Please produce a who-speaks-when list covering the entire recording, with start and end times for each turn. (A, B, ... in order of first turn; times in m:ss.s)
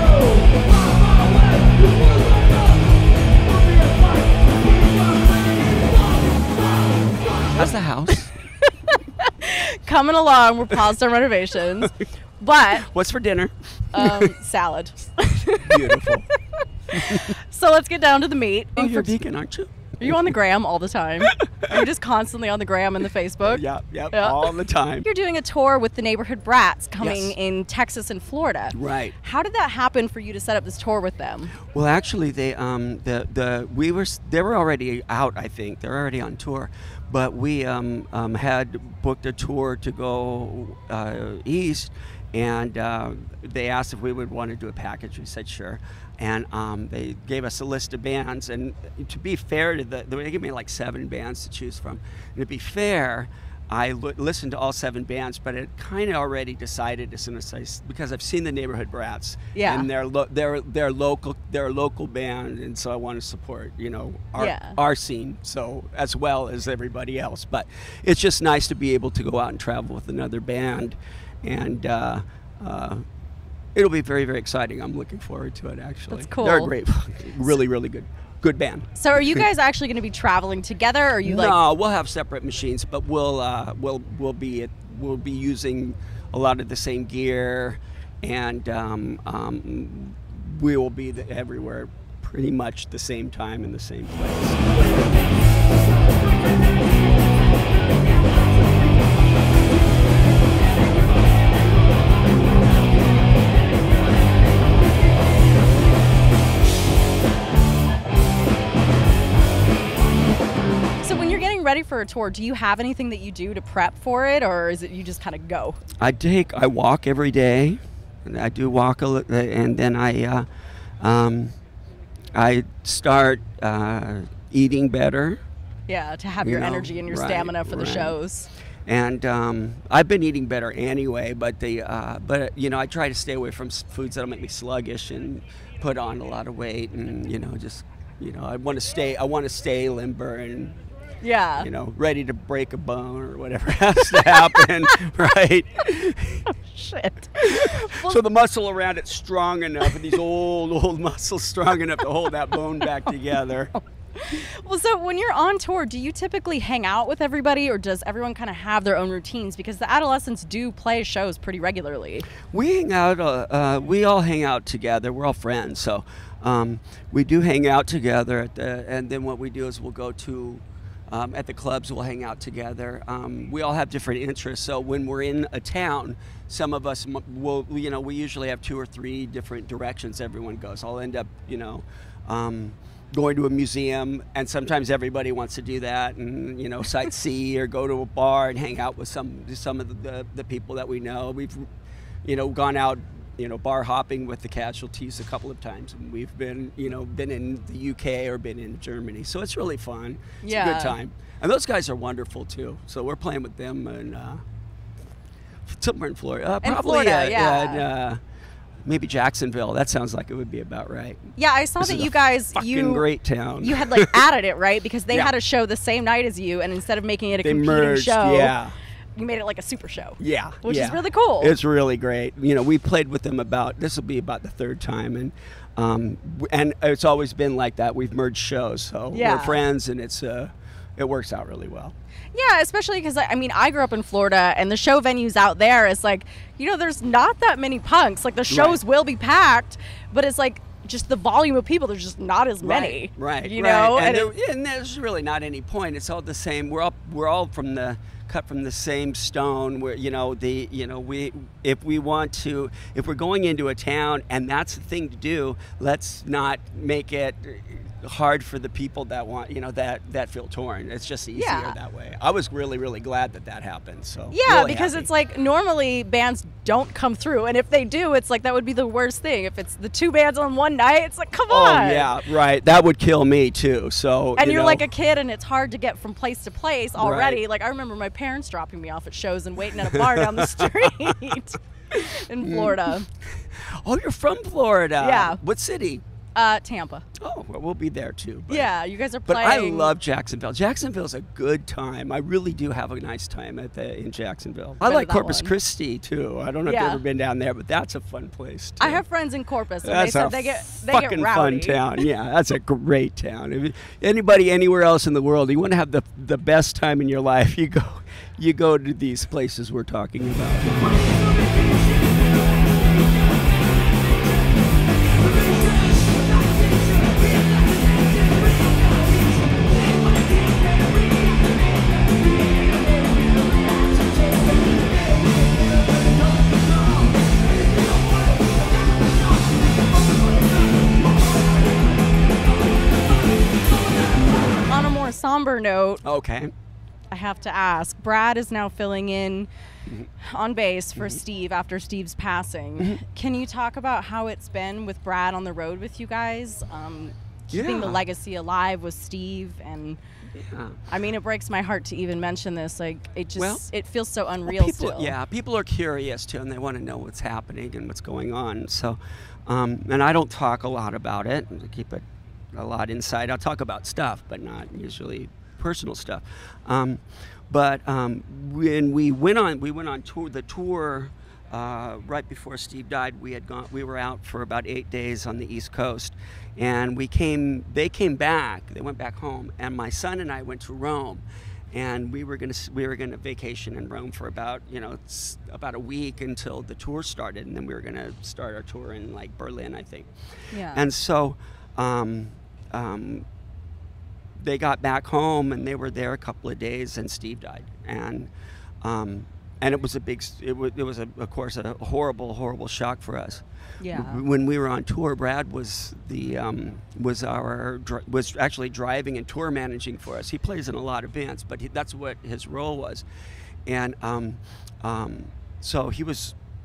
0:07.5-0:08.3 A
0:08.6-0:12.8 B
0:12.7-0:14.3 A
0:13.9-0:16.2 B
0:15.6-0:16.3 A
0:16.9-0:17.3 A
0:17.0-0:19.2 B
0:18.8-0:20.3 A
0:20.0-0:24.5 B
0:21.2-0:21.8 A
0:23.4-0:25.1 A
0:25.0-0:31.6 B
0:27.0-0:27.4 A
0:28.7-0:29.2 A
0:31.7-1:13.0 A
0:59.5-0:59.9 B
1:04.4-1:04.8 B
1:13.7-1:19.4 A
1:16.1-1:16.7 B
1:18.9-1:21.6 B
1:21.2-1:34.7 A
1:51.0-1:55.8 B
1:56.0-2:00.5 A
2:01.0-2:01.5 A
2:02.3-2:05.4 A
2:05.9-2:08.5 B
2:06.4-2:08.2 A
2:08.8-2:20.8 A
2:21.2-2:21.7 B
2:21.6-2:26.4 A
2:24.2-2:24.6 B
2:26.6-2:28.2 B
2:27.4-2:33.7 A
2:34.2-2:42.3 B
2:42.5-3:11.7 A
3:12.2-3:24.4 A
3:20.4-3:21.0 B
3:25.7-3:28.2 A
3:26.6-3:27.8 B
3:28.8-3:34.2 A
3:31.4-3:33.0 B
3:33.6-3:38.6 B
3:37.4-3:38.7 A
3:39.2-3:41.6 B
3:40.2-3:51.9 A
3:49.1-3:49.6 B
3:52.3-4:04.3 B
3:58.5-3:58.8 A
4:02.6-4:25.1 A
4:21.3-4:21.8 B
4:24.3-4:32.1 B
4:31.5-4:34.8 A
4:34.4-4:43.1 B
4:37.0-4:37.4 A
4:39.7-4:41.3 A
4:42.4-4:46.0 A
4:45.0-4:45.4 B
4:46.3-4:47.0 B
4:47.2-4:48.7 A
4:48.5-4:50.0 B
4:49.2-4:59.0 A
4:54.8-4:55.5 B
4:56.6-4:57.0 B
4:58.8-5:02.0 B
4:59.8-5:11.1 A
5:34.7-5:36.0 B
5:36.0-5:36.5 A
5:37.1-5:39.5 B
5:40.2-5:50.0 B
5:41.0-5:41.2 A
5:47.5-5:48.0 A
5:50.3-5:50.8 A
5:50.9-5:55.1 B
5:53.4-5:53.7 A
5:54.4-6:30.1 A
6:30.5-6:30.8 B
6:30.7-6:33.2 A
6:34.4-6:38.3 A
6:38.8-6:53.0 A
6:43.8-6:44.2 B
6:53.6-6:56.4 A